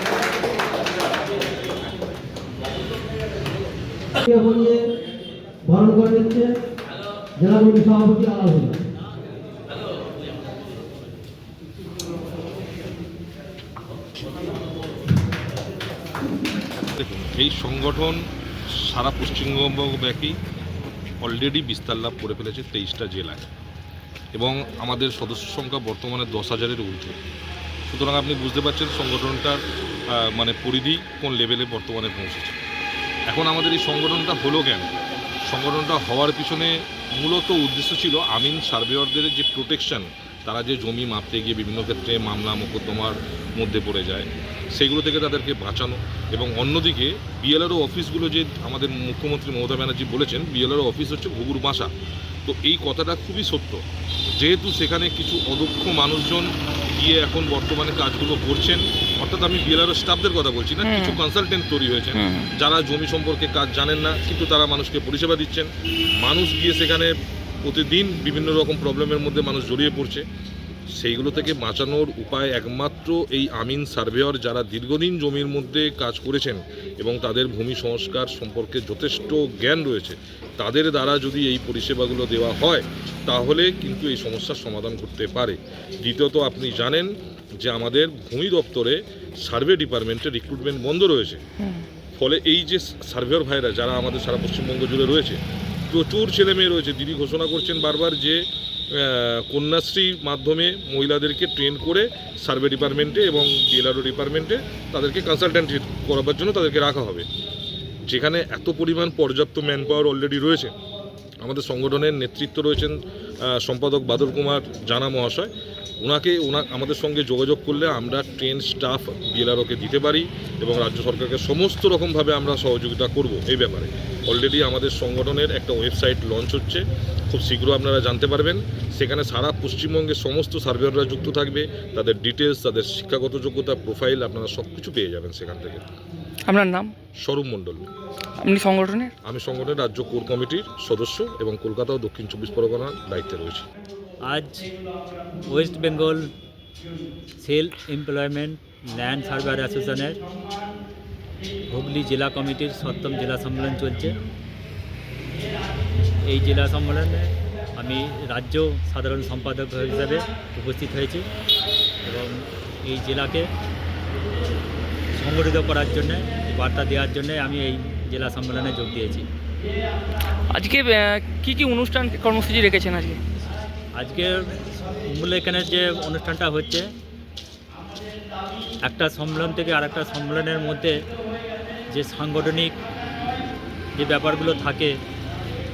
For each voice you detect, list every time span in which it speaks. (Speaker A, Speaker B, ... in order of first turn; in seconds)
Speaker A: 4.2-4.8, 5.7-6.5, 7.4-8.8
Speaker B: 16.9-18.2, 18.8-20.4, 21.2-23.5, 24.3-27.1, 27.9-29.6, 30.1-32.6, 33.3-34.9, 35.5-51.9, 52.5-53.8, 54.4-65.7, 66.2-67.1, 67.6-70.2, 71.0-87.1, 87.6-91.4, 92.2-95.4, 95.9-98.4, 98.9-107.2, 108.1-110.7, 111.4-113.0, 113.5-135.8, 137.2-137.9, 139.2-143.7
Speaker C: 60.8-61.2, 62.1-62.5, 136.5-136.9, 138.4-139.1, 170.5-173.2
Speaker D: 144.3-144.7, 145.5-146.2, 147.4-150.2, 151.7-154.1, 156.2-161.2, 162.1-162.3, 162.8-163.5, 165.2-169.2, 174.0-174.4, 175.1-176.8, 178.8-180.9, 181.9-182.7, 183.9-184.9